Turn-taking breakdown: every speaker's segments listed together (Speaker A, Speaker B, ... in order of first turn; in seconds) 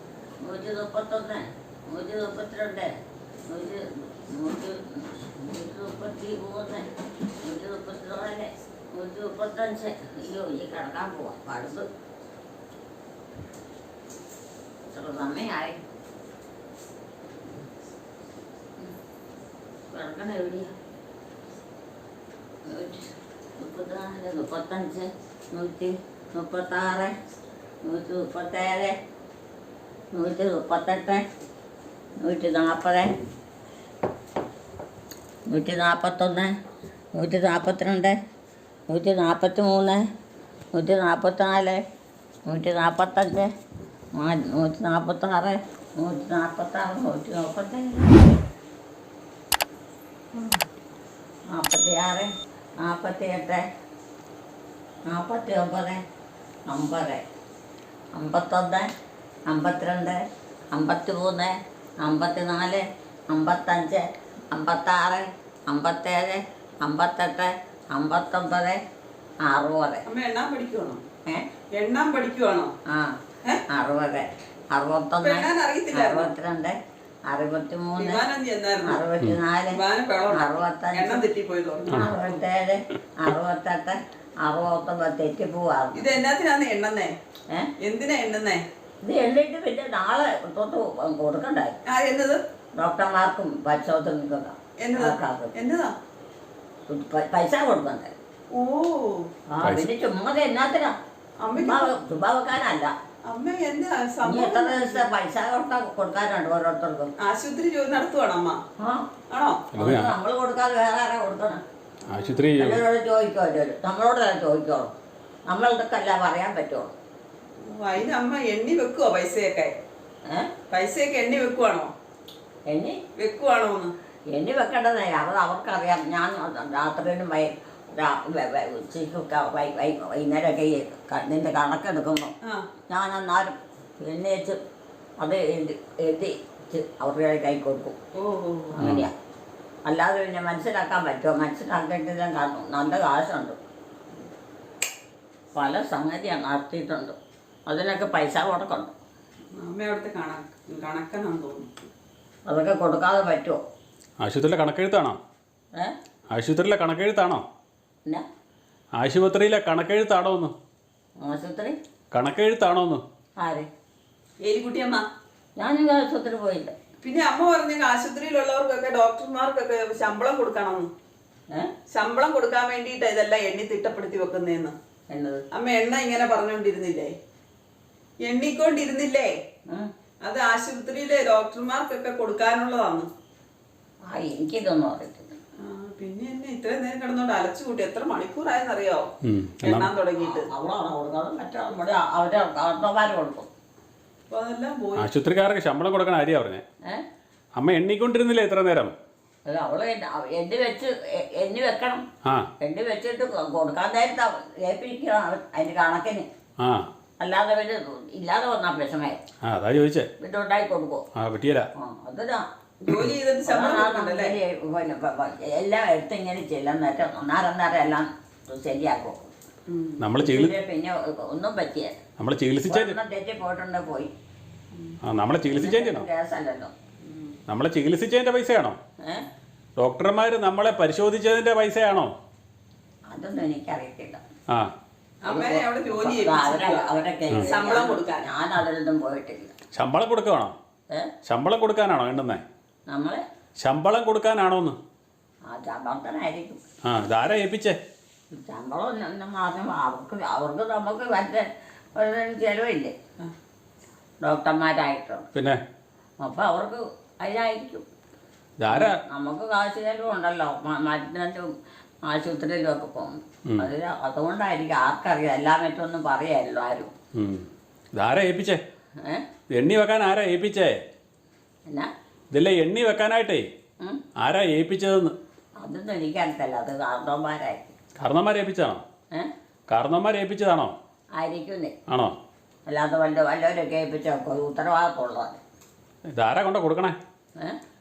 Speaker A: 0.4-3.0, 3.5-6.9, 7.4-11.9, 14.8-15.8, 19.9-20.7, 22.6-27.1, 27.8-28.9, 30.1-31.2, 32.2-33.1, 35.5-36.5, 37.1-38.2, 38.9-40.1, 40.7-41.8, 42.5-43.5, 44.1-48.4, 50.3-50.6, 51.5-53.6, 55.1-56.0, 56.7-57.2, 58.1-58.9, 59.5-68.8, 69.4-70.0, 72.8-76.8, 77.3-78.2, 78.8-79.8, 80.3-81.2, 81.9-86.1, 89.0-91.8, 92.8-95.5, 96.9-98.2, 99.5-101.0, 101.5-102.9, 104.2-107.1, 108.8-109.1, 109.8-111.6, 112.5-114.9, 115.5-116.9, 120.2-120.5, 122.7-123.0, 124.3-132.3, 132.9-134.6, 135.2-138.0, 138.7-139.1, 139.8-143.6, 145.5-148.9, 152.4-153.6, 161.2-161.8, 163.4-163.7, 165.6-166.7, 175.1-175.4, 184.1-185.4, 190.2-193.5, 199.4-202.0, 202.6-206.3, 207.2-209.2, 210.2-211.0, 211.7-212.5, 213.5-219.3, 220.2-222.0, 222.7-224.1, 225.5-226.7, 229.0-229.3, 233.1-234.2, 235.3-239.5, 242.9-243.2, 245.5-246.6, 248.3-252.9, 254.2-255.3, 256.2-257.9, 258.7-261.5, 262.0-266.9, 269.0-269.2, 275.6-277.8, 281.2-281.7, 282.7-285.4
Speaker B: 70.0-71.0, 71.7-72.7, 75.2-76.3, 78.0-79.0, 79.7-82.4, 85.9-87.1, 87.8-88.6, 91.8-92.4, 94.8-95.9, 98.5-99.3, 101.4-101.9, 103.2-105.0, 107.2-108.6, 109.3-109.7, 117.6-119.7, 120.7-121.9, 123.2-123.9, 138.1-138.7, 149.6-151.8, 164.4-165.0, 167.0-170.9, 171.9-174.7, 175.5-177.1, 178.2-179.3, 180.2-183.1, 185.6-189.1, 189.6-190.5, 194.3-195.1, 212.8-214.3, 219.7-220.0, 227.0-227.4, 235.2-236.9, 237.4-238.3
Speaker C: 99.6-99.9, 109.7-110.2, 112.1-112.8, 138.8-139.1, 154.2-155.2, 156.3-157.4, 159.0-160.5, 162.1-163.0, 189.2-189.9, 195.0-196.6, 197.6-198.9, 202.2-202.5, 206.6-206.9, 209.4-210.1, 211.1-211.7, 220.0-220.5, 222.2-222.9, 225.0-226.1, 227.5-228.8, 229.8-232.1, 239.7-240.5, 241.2-242.4, 243.6-244.8, 246.8-247.8, 255.3-255.6, 258.6-259.0, 267.1-268.6, 269.5-270.8, 272.3-273.5, 274.2-275.1, 278.0-278.8, 279.7-280.7, 281.9-282.2, 286.1-287.0